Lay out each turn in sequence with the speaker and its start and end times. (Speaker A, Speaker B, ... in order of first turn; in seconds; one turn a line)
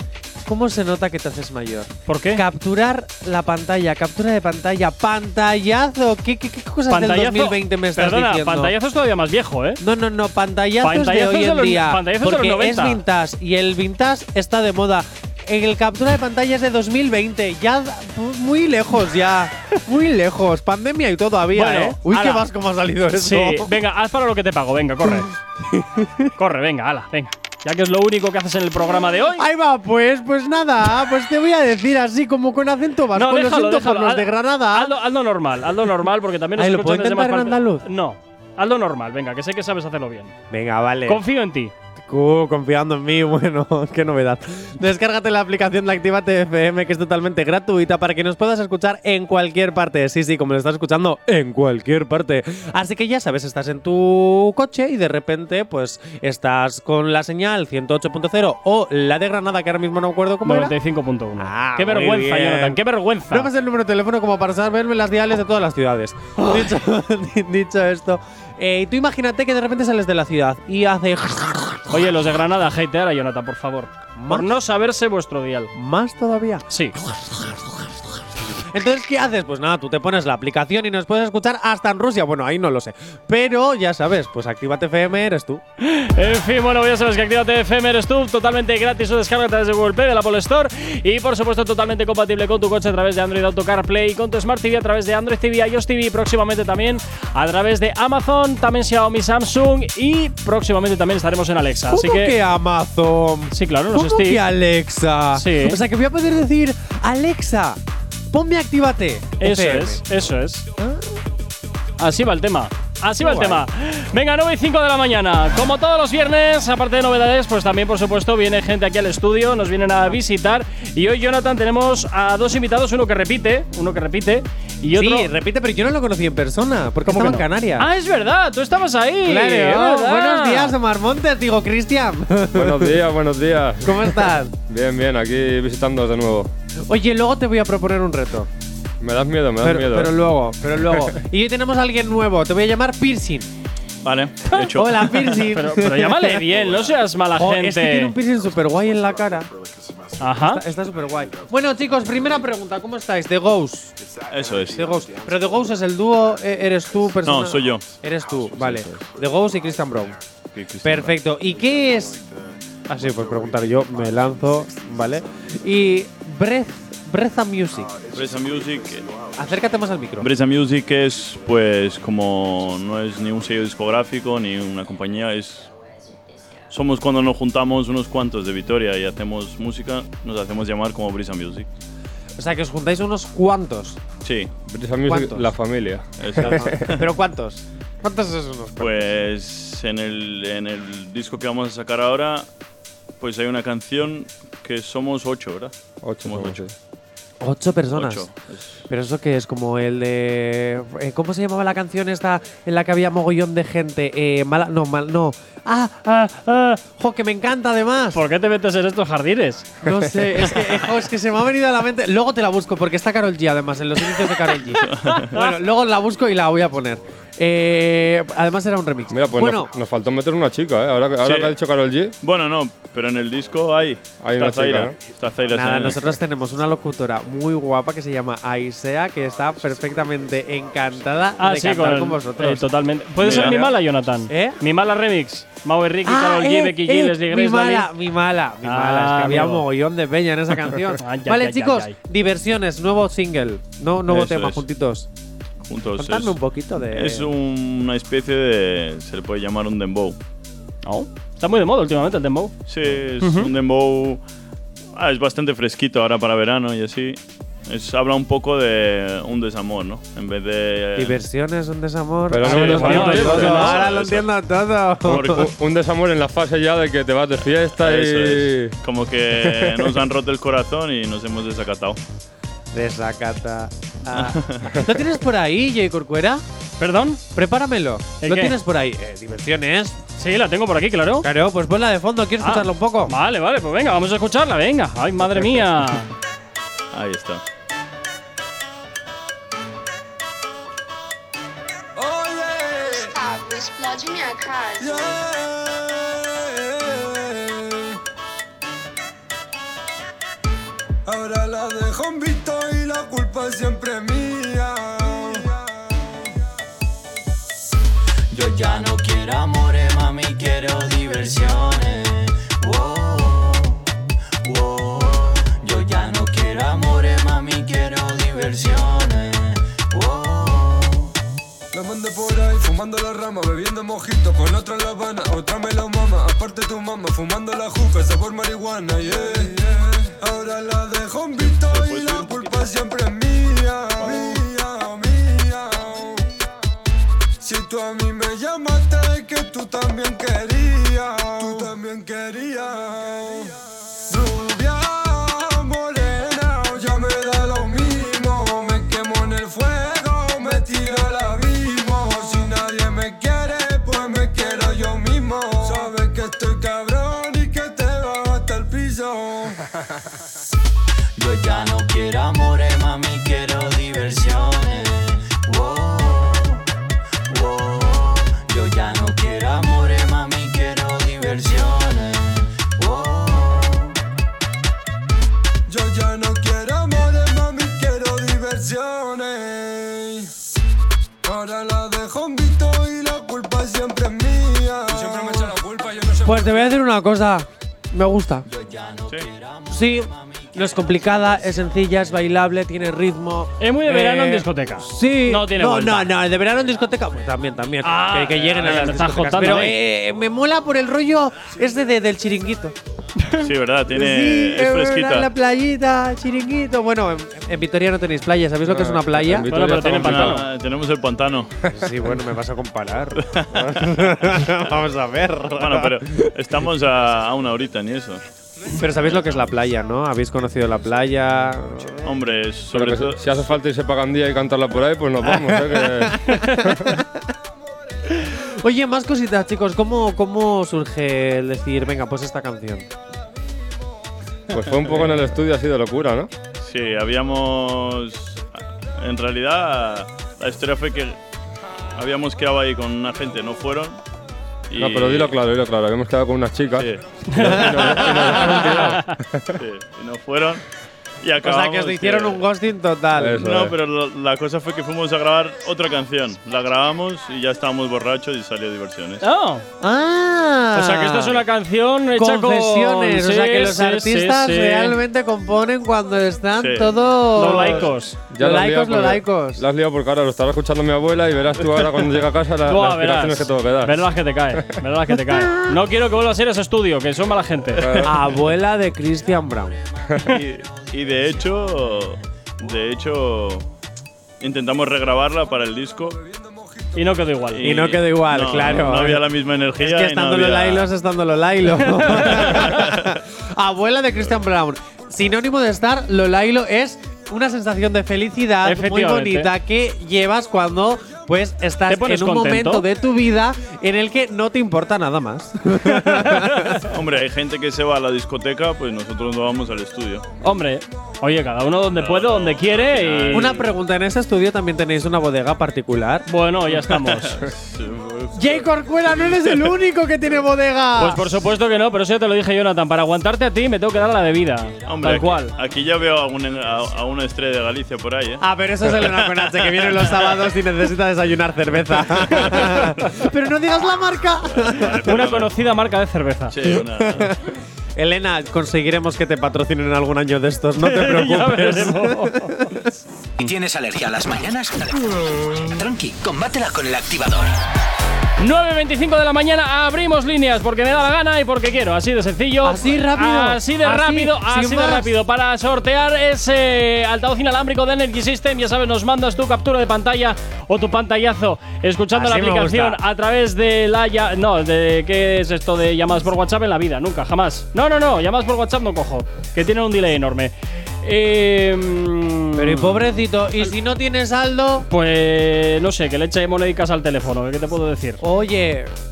Speaker A: 0.5-8.7
Speaker B: 2.1-2.4
Speaker B: 6.9-9.8
Speaker A: 9.8-23.7
Speaker B: 10.8-13.0
Speaker B: 21.5-22.4
Speaker B: 23.1-25.3
Speaker A: 25.0-26.3
Speaker B: 26.4-29.4
Speaker A: 29.4-34.9
Speaker B: 33.1-40.3
Speaker A: 36.5-37.8
Speaker A: 40.5-41.2
Speaker B: 41.0-41.7
Speaker A: 42.0-60.7
Speaker B: 60.4-63.5
Speaker A: 61.4-72.0
Speaker B: 71.9-75.7
Speaker A: 74.2-74.5
Speaker A: 75.7-77.7
Speaker B: 76.7-77.0
Speaker A: 78.5-85.6
Speaker B: 85.8-102.3
Speaker A: 101.9-107.8
Speaker B: 103.5-104.4
Speaker B: 105.3-105.8
Speaker A: 108.3-110.0
Speaker B: 109.4-110.7
Speaker A: 110.8-111.2
Speaker B: 112.0-125.3
Speaker A: 113.2-113.6
Speaker A: 124.9-127.9
Speaker B: 127.1-130.7
Speaker A: 129.2-133.0
Speaker C: 132.5-134.1
Speaker A: 133.8-134.5
Speaker C: 134.6-136.5
Speaker A: 136.9-138.5
Speaker C: 139.0-140.1
Speaker A: 139.6-143.5
Speaker D: 144.0-145.4
Speaker A: 144.7-146.7
Speaker B: 145.3-148.2
Speaker A: 147.3-149.5
Speaker B: 150.2-150.6
Speaker A: 150.3-153.9
Speaker D: 154.3-154.9
Speaker A: 154.6-160.2
Speaker D: 157.2-157.9
Speaker D: 158.5-159.1
Speaker D: 160.5-161.2
Speaker A: 160.8-162.2
Speaker A: 162.9-168.0
Speaker D: 168.1-169.1
Speaker A: 169.3-170.3
Speaker D: 170.2-175.7
Speaker D: 176.7-181.7
Speaker A: 182.4-184.0
Speaker D: 184.2-184.5
Speaker C: 184.7-186.9
Speaker A: 185.1-185.5
Speaker D: 186.2-187.1
Speaker A: 186.4-189.1
Speaker D: 188.8-192.5
Speaker D: 193.2-195.7
Speaker C: 196.0-196.7
Speaker D: 196.2-196.6
Speaker A: 197.4-198.2
Speaker D: 197.9-198.8
Speaker A: 198.9-208.2
Speaker B: 208.1-209.8
Speaker A: 209.8-219.7
Speaker B: 214.8-215.5
Speaker D: 214.8-215.4
Speaker C: 219.1-222.1
Speaker D: 221.2-221.6
Speaker D: 222.2-226.1
Speaker C: 224.2-224.9
Speaker A: 225.5-232.7
Speaker B: 231.4-237.9
Speaker D: 233.2-233.8
Speaker A: 233.2-233.6
Speaker A: 234.3-234.6
Speaker A: 236.0-245.1
Speaker B: 238.6-239.7
Speaker B: 240.9-241.9
Speaker D: 244.1-244.6
Speaker D: 245.7-246.4
Speaker A: 246.0-247.3
Speaker D: 246.9-250.2
Speaker B: 250.8-252.5
Speaker D: 252.7-254.2
Speaker B: 253.2-253.5
Speaker D: 254.9-261.2
Speaker A: 260.9-265.5
Speaker C: 262.3-263.8
Speaker D: 262.5-264.3
Speaker B: 262.6-263.7
Speaker D: 265.0-265.4
Speaker C: 265.1-268.8
Speaker D: 267.4-272.0
Speaker C: 269.4-269.9
Speaker A: 272.7-276.4
Speaker D: 274.1-274.8
Speaker B: 276.8-277.2
Speaker A: 277.3-280.0
Speaker B: 278.2-278.6
Speaker B: 280.2-281.3
Speaker A: 281.2-283.1
Speaker B: 282.4-286.1
Speaker D: 286.9-287.4
Speaker E: 291.9-293.2
Speaker E: 294.8-298.0
Speaker E: 301.1-305.6
Speaker F: 308.3-313.9
Speaker F: 314.4-321.1
Speaker E: 321.7-336.3
Speaker D: 331.4-332.7
Speaker D: 334.0-334.4
Speaker E: 337.4-343.6
Speaker E: 344.1-359.6
Speaker F: 361.2-366.6
Speaker F: 367.3-374.0
Speaker E: 375.7-380.3
Speaker E: 381.2-386.6
Speaker A: 386.2-388.5
Speaker F: 388.4-392.2
Speaker A: 389.7-402.8
Speaker B: 393.6-396.1
Speaker B: 397.8-399.8
Speaker B: 403.2-403.4
Speaker D: 403.4-405.3
Speaker A: 403.9-409.5
Speaker C: 408.7-410.4
Speaker B: 409.5-410.5
Speaker D: 409.8-411.5
Speaker A: 411.7-416.3
Speaker D: 413.2-413.8
Speaker D: 415.5-418.2
Speaker A: 418.8-422.1
Speaker D: 418.9-419.5
Speaker D: 422.0-423.6
Speaker C: 422.7-427.0
Speaker A: 425.2-427.2
Speaker A: 428.1-432.9
Speaker C: 434.5-436.3
Speaker D: 436.6-441.2
Speaker D: 441.9-444.0
Speaker D: 444.7-445.4
Speaker C: 444.8-449.6
Speaker D: 446.8-448.7
Speaker B: 447.3-449.2
Speaker A: 447.4-447.8
Speaker D: 449.5-450.6
Speaker D: 451.2-452.4
Speaker A: 451.4-453.4
Speaker C: 453.1-453.8
Speaker D: 453.4-459.2
Speaker B: 459.2-459.6
Speaker A: 459.8-461.4
Speaker B: 460.7-465.0
Speaker A: 462.1-469.6
Speaker D: 466.6-467.0
Speaker B: 467.3-468.2
Speaker C: 468.3-474.7
Speaker B: 472.7-477.9
Speaker A: 475.3-475.8
Speaker C: 477.8-478.3
Speaker A: 478.0-479.8
Speaker F: 479.2-479.8
Speaker D: 480.2-483.7
Speaker F: 480.5-482.1
Speaker D: 484.4-486.2
Speaker E: 486.1-487.2
Speaker B: 486.9-487.6
Speaker D: 487.5-490.9
Speaker A: 487.6-489.2
Speaker A: 489.8-506.9
Speaker B: 491.8-492.7
Speaker D: 492.2-493.2
Speaker B: 498.6-499.5
Speaker B: 501.9-502.9
Speaker B: 505.9-506.8
Speaker D: 506.9-510.2
Speaker B: 510.4-513.5
Speaker D: 511.9-513.7
Speaker A: 513.3-516.2
Speaker B: 516.3-517.4
Speaker D: 516.9-519.8
Speaker A: 518.3-521.2
Speaker B: 521.0-525.5
Speaker D: 524.9-530.5
Speaker F: 524.9-525.4
Speaker A: 528.4-535.1
Speaker D: 532.0-532.6
Speaker B: 532.6-532.9
Speaker D: 534.5-535.5
Speaker B: 535.0-536.5
Speaker D: 536.5-537.3
Speaker A: 536.6-537.4
Speaker A: 538.0-542.9
Speaker B: 540.8-542.6
Speaker G: 543.4-547.5
Speaker B: 548.4-573.1
Speaker A: 552.6-555.1
Speaker A: 562.1-563.0
Speaker A: 572.5-574.9
Speaker B: 574.9-578.2
Speaker A: 578.2-578.9